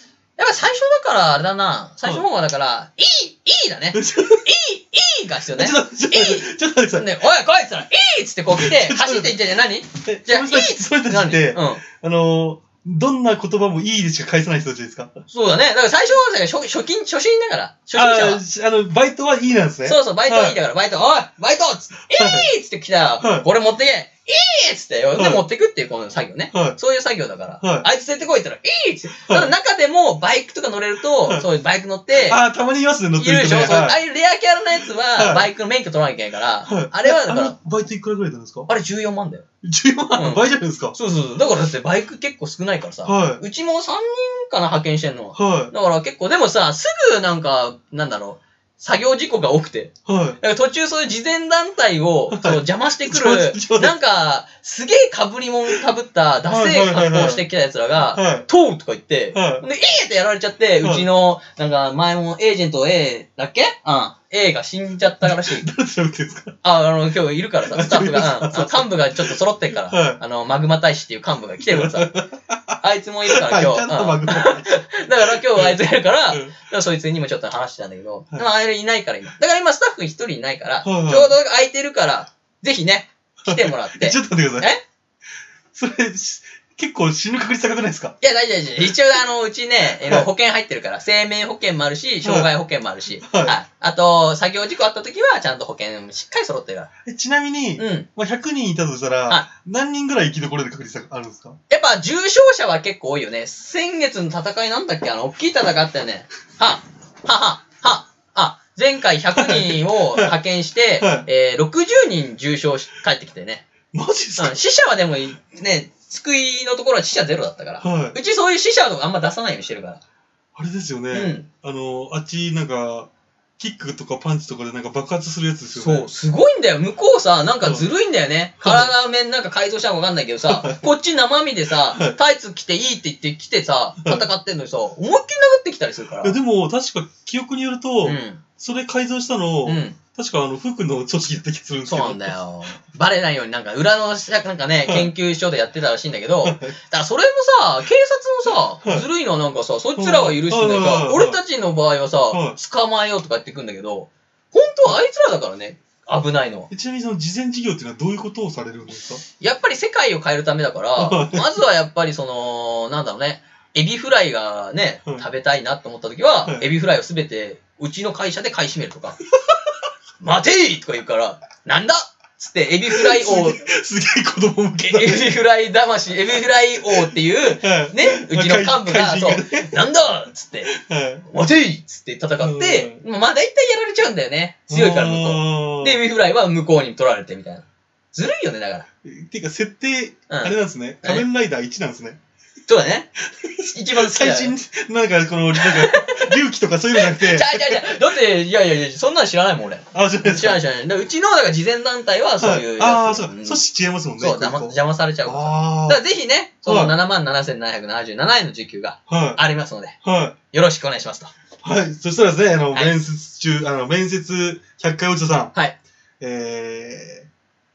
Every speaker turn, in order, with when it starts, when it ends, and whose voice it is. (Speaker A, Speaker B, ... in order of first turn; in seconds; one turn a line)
Speaker A: 0.4-11.8
Speaker B: 3.9-4.5
Speaker B: 5.5-7.1
Speaker B: 8.5-9.4
Speaker B: 10.0-15.1
Speaker A: 15.3-18.4
Speaker B: 17.9-20.6
Speaker A: 19.8-32.4
Speaker B: 22.1-22.5
Speaker B: 23.2-23.5
Speaker B: 25.1-25.4
Speaker B: 26.5-26.8
Speaker B: 27.6-27.9
Speaker B: 32.1-34.0
Speaker A: 33.2-37.5
Speaker B: 35.1-35.5
Speaker B: 36.6-38.7
Speaker A: 38.7-39.4
Speaker B: 39.6-41.0
Speaker A: 40.1-65.7
Speaker B: 43.0-43.4
Speaker B: 45.4-45.7
Speaker B: 50.0-50.4
Speaker B: 52.3-53.9
Speaker B: 56.5-57.4
Speaker B: 58.1-58.5
Speaker B: 59.3-59.6
Speaker B: 60.8-61.1
Speaker B: 65.2-66.6
Speaker A: 66.6-72.1
Speaker B: 67.7-70.2
Speaker B: 71.6-72.8
Speaker A: 72.8-84.8
Speaker B: 73.3-75.8
Speaker B: 80.8-81.3
Speaker B: 83.4-84.7
Speaker B: 85.7-88.2
Speaker A: 88.2-96.9
Speaker B: 89.9-90.3
Speaker B: 92.2-92.5
Speaker B: 93.2-93.6
Speaker B: 97.0-101.6
Speaker A: 97.8-98.1
Speaker A: 101.7-113.7
Speaker B: 109.4-110.3
Speaker B: 111.0-111.3
Speaker B: 113.9-114.5
Speaker A: 114.4-120.0
Speaker B: 117.8-118.2
Speaker B: 120.5-126.1
Speaker A: 121.1-121.5
Speaker A: 125.7-136.4
Speaker B: 128.6-128.9
Speaker B: 130.4-130.8
Speaker B: 131.9-132.2
Speaker B: 136.2-142.3
Speaker A: 138.0-138.4
Speaker A: 139.7-140.0
Speaker A: 141.9-156.7
Speaker B: 144.9-145.1
Speaker B: 146.4-146.7
Speaker B: 148.8-149.1
Speaker B: 149.9-151.4
Speaker B: 152.3-152.6
Speaker B: 156.7-159.2
Speaker A: 159.4-169.2
Speaker B: 161.0-161.6
Speaker A: 170.2-173.6
Speaker B: 172.9-175.4
Speaker A: 174.9-180.7
Speaker B: 176.9-179.9
Speaker B: 180.6-181.3
Speaker A: 181.3-188.9
Speaker B: 182.4-183.0
Speaker B: 184.7-186.0
Speaker B: 189.0-192.2
Speaker A: 190.3-191.2
Speaker A: 192.7-193.1
Speaker B: 193.3-198.0
Speaker A: 193.6-194.5
Speaker A: 195.6-196.3
Speaker A: 196.9-203.6
Speaker B: 199.9-200.6
Speaker B: 202.4-206.0
Speaker A: 204.2-210.0
Speaker B: 206.6-206.9
Speaker B: 209.1-209.4
Speaker B: 210.0-210.3
Speaker A: 210.5-211.3
Speaker B: 211.6-215.5
Speaker A: 212.7-213.0
Speaker B: 216.2-217.3